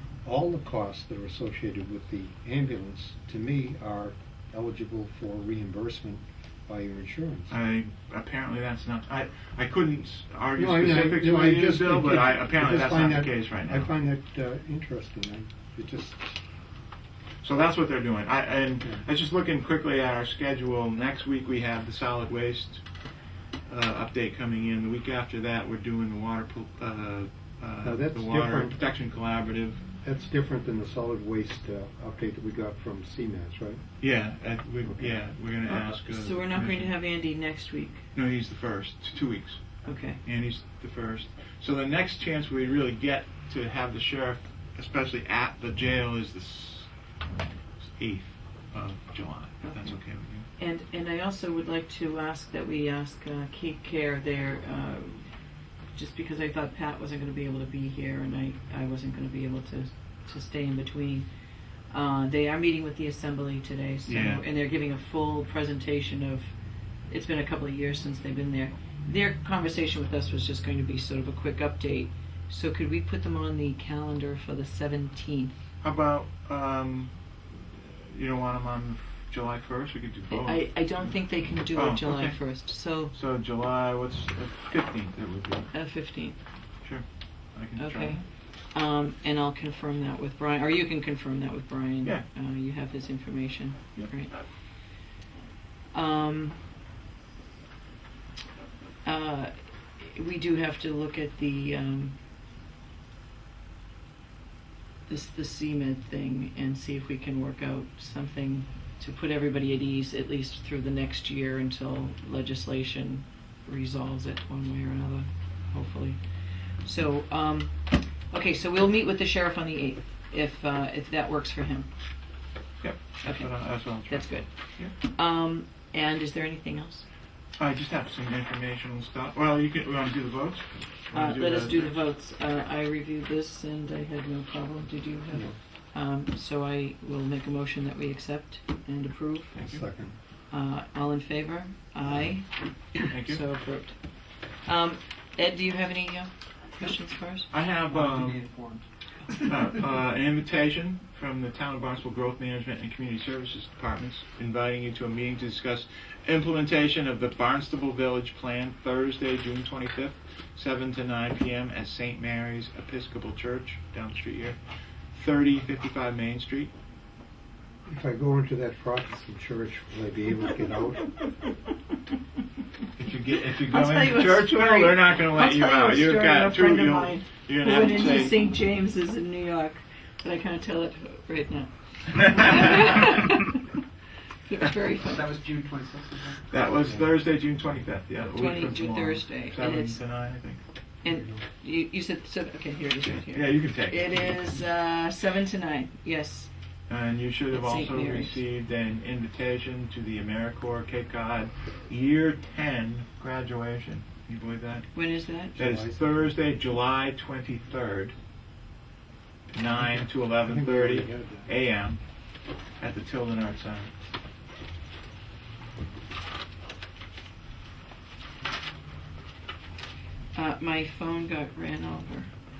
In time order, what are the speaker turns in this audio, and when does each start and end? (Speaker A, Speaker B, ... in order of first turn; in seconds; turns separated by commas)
Speaker A: 0.2-7.5, Speaker B: 7.5-13.9, Speaker A: 10.6-16.4, Speaker B: 17.4-22.8, Speaker B: 23.7-29.8, Speaker A: 27.8-28.8, Speaker A: 30.0-33.8, Speaker B: 34.0-36.9, Speaker C: 35.7-38.0, Speaker B: 38.1-39.6, Speaker C: 39.9-40.2, Speaker B: 40.2-46.9, Speaker B: 47.8-50.5, Speaker C: 49.6-49.9, Speaker C: 50.6-55.3, Speaker C: 56.0-61.3, Speaker C: 61.9-66.5, Speaker B: 64.1-64.4, Speaker C: 67.1-75.6, Speaker B: 75.8-81.1, Speaker C: 80.3-83.1, Speaker B: 81.7-82.4, Speaker B: 83.1-85.7, Speaker C: 85.7-86.4, Speaker B: 86.8-88.2, Speaker C: 87.8-94.4, Speaker C: 95.9-96.6, Speaker C: 99.0-102.2, Speaker C: 105.1-116.2, Speaker C: 116.8-117.7, Speaker C: 118.3-121.9, Speaker B: 122.8-124.9, Speaker C: 123.2-124.5, Speaker C: 125.0-127.1, Speaker B: 127.6-132.0, Speaker C: 131.1-139.5, Speaker B: 139.5-139.8, Speaker A: 139.6-140.1, Speaker C: 140.5-142.5, Speaker C: 143.0-144.0, Speaker B: 143.1-143.4, Speaker C: 144.6-147.5, Speaker B: 147.5-148.4, Speaker D: 147.9-148.9, Speaker B: 149.5-164.6, Speaker B: 165.1-166.7, Speaker A: 167.9-171.1, Speaker B: 173.0-178.4, Speaker C: 173.6-183.6, Speaker B: 182.2-183.1, Speaker C: 184.5-185.3, Speaker D: 184.9-186.4, Speaker B: 186.5-190.6, Speaker C: 188.3-190.0, Speaker C: 191.0-196.5, Speaker B: 193.2-194.6, Speaker B: 196.9-204.9, Speaker C: 197.5-198.4, Speaker C: 204.9-205.6, Speaker A: 205.6-206.3, Speaker B: 205.6-208.1, Speaker B: 209.5-212.0, Speaker A: 209.8-211.5, Speaker B: 212.8-213.9, Speaker C: 220.3-222.3